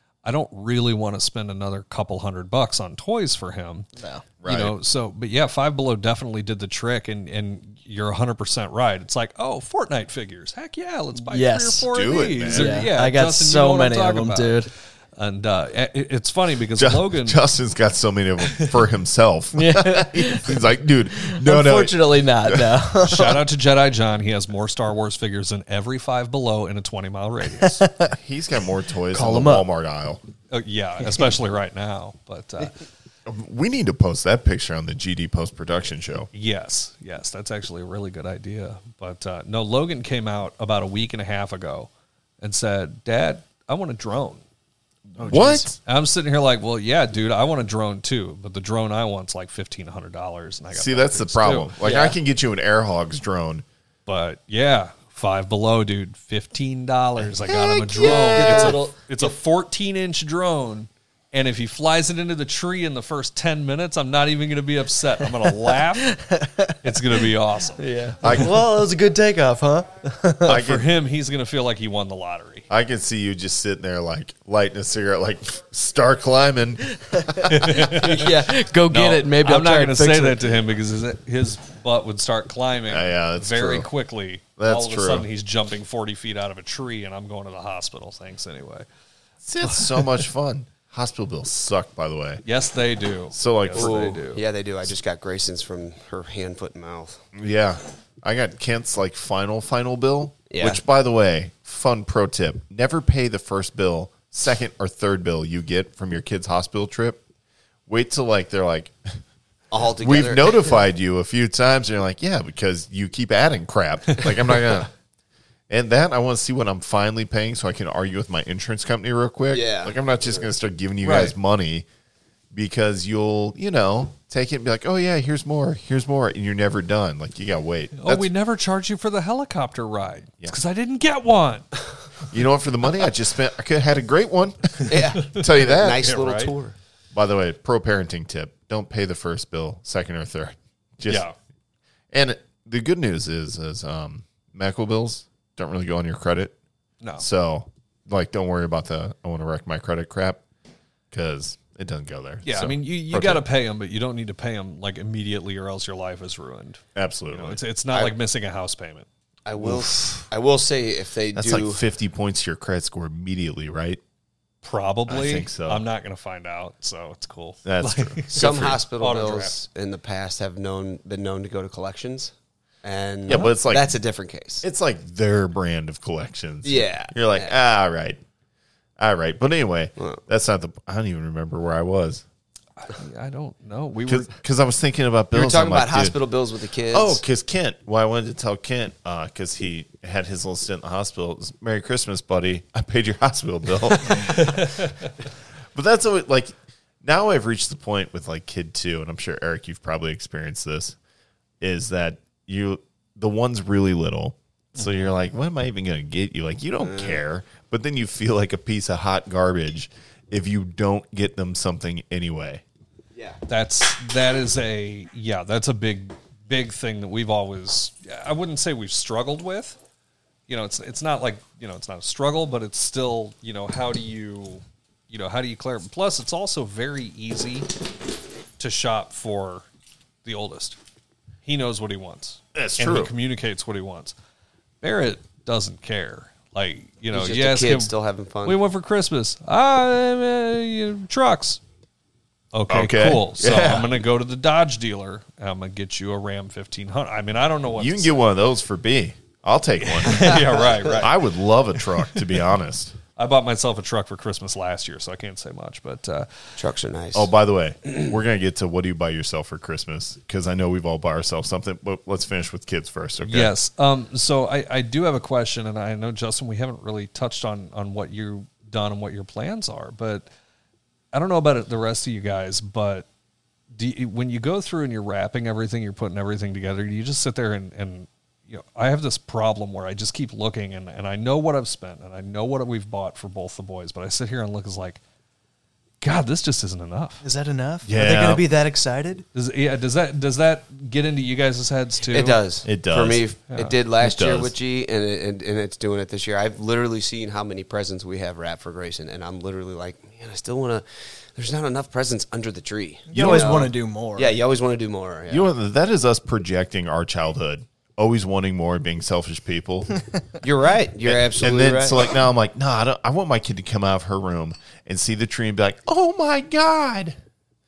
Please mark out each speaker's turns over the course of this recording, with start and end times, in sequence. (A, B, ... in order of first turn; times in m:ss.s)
0:00.2-0:03.9 A
0:04.0-0:04.2 B
0:04.4-0:04.8 C
0:04.4-0:17.4 A
0:11.3-0:11.9 B
0:11.9-0:12.8 C
0:12.5-0:14.7 B
0:16.8-0:22.8 C
0:19.6-0:20.6 B
0:21.2-0:23.4 B
0:23.0-0:27.8 A
0:27.6-0:28.2 B
0:28.1-0:30.2 C
0:29.1-0:29.7 B
0:30.5-0:32.8 A
0:33.3-0:36.3 C
0:36.3-0:41.9 A
0:42.4-0:44.4 A
0:45.2-0:45.8 C
0:45.2-0:51.9 A
0:45.2-0:45.7 B
0:50.7-0:53.6 C
0:54.1-1:06.2 A
0:57.2-0:58.8 C
0:58.4-0:59.0 B
1:05.4-1:07.0 B
1:06.8-1:08.4 A
1:07.8-1:10.6 B
1:08.2-1:08.7 C
1:10.4-1:10.9 C
1:10.5-1:12.6 A
1:12.7-1:17.9 C
1:17.1-1:20.4 B
1:17.5-1:18.3 A
1:18.9-1:28.9 A
1:22.9-1:23.9 C
1:24.6-1:25.3 C
1:29.4-1:32.4 C
1:32.4-1:34.4 A
1:33.3-1:34.2 C
1:33.8-1:37.2 D
1:37.3-1:47.2 C
1:40.5-1:40.8 D
1:47.9-1:49.2 C
1:49.7-1:50.8 D
1:50.0-1:54.9 C
1:55.7-2:01.9 C
1:59.5-2:00.5 D
2:01.0-2:01.3 A
2:02.5-2:08.3 C
2:08.0-2:11.7 A
2:12.3-2:16.1 C
2:14.9-2:16.8 D
2:15.4-2:16.5 A
2:17.1-2:21.3 C
2:21.1-2:21.4 A
2:22.1-2:26.6 C
2:27.2-2:30.4 C
2:31.1-2:33.4 C
2:32.4-2:36.8 A
2:37.0-2:37.6 C
2:37.3-2:39.1 A
2:39.5-2:41.8 D
2:39.6-2:40.1 C
2:41.3-2:44.0 C
2:44.6-2:49.6 A
2:45.1-2:45.8 C
2:47.6-2:48.8 C
2:48.3-2:54.6 D
2:53.3-2:54.0 C
2:54.6-2:58.2 C
2:56.6-2:57.5 D
2:59.0-3:02.2 C
3:02.8-3:04.3 A
3:04.1-3:06.2 C
3:05.3-3:07.2 D
3:06.9-3:14.7 C
3:14.4-3:14.7 A
3:15.7-3:21.0 C
3:21.6-3:32.6 C
3:24.8-3:25.0 A
3:26.8-3:27.2 D
3:33.5-3:39.8 A
3:40.5-3:47.7 A
3:48.6-3:49.6 A
3:50.2-3:50.8 A
3:51.4-3:54.2 A
3:52.6-3:53.1 C
3:54.8-3:57.9 A
3:57.1-3:58.6 D
3:58.4-4:01.6 A
4:02.5-4:08.2 A
4:02.7-4:03.9 C
4:07.8-4:13.0 C
4:10.0-4:11.2 A
4:10.1-4:11.0 D
4:13.2-4:16.3 A
4:16.6-4:17.3 D
4:17.1-4:23.5 C
4:23.3-4:30.3 A
4:31.1-4:33.1 A
4:33.7-4:45.0 A
4:46.0-4:47.2 A
4:47.2-4:49.2 B
4:47.9-4:48.5 C
4:49.4-4:52.4 A
4:52.1-5:05.5 D
4:52.6-4:53.3 C
4:54.0-4:54.5 C
5:03.1-5:04.3 B
5:03.1-5:03.7 C
5:05.3-5:10.1 C
5:10.4-5:12.0 D
5:11.0-5:17.2 C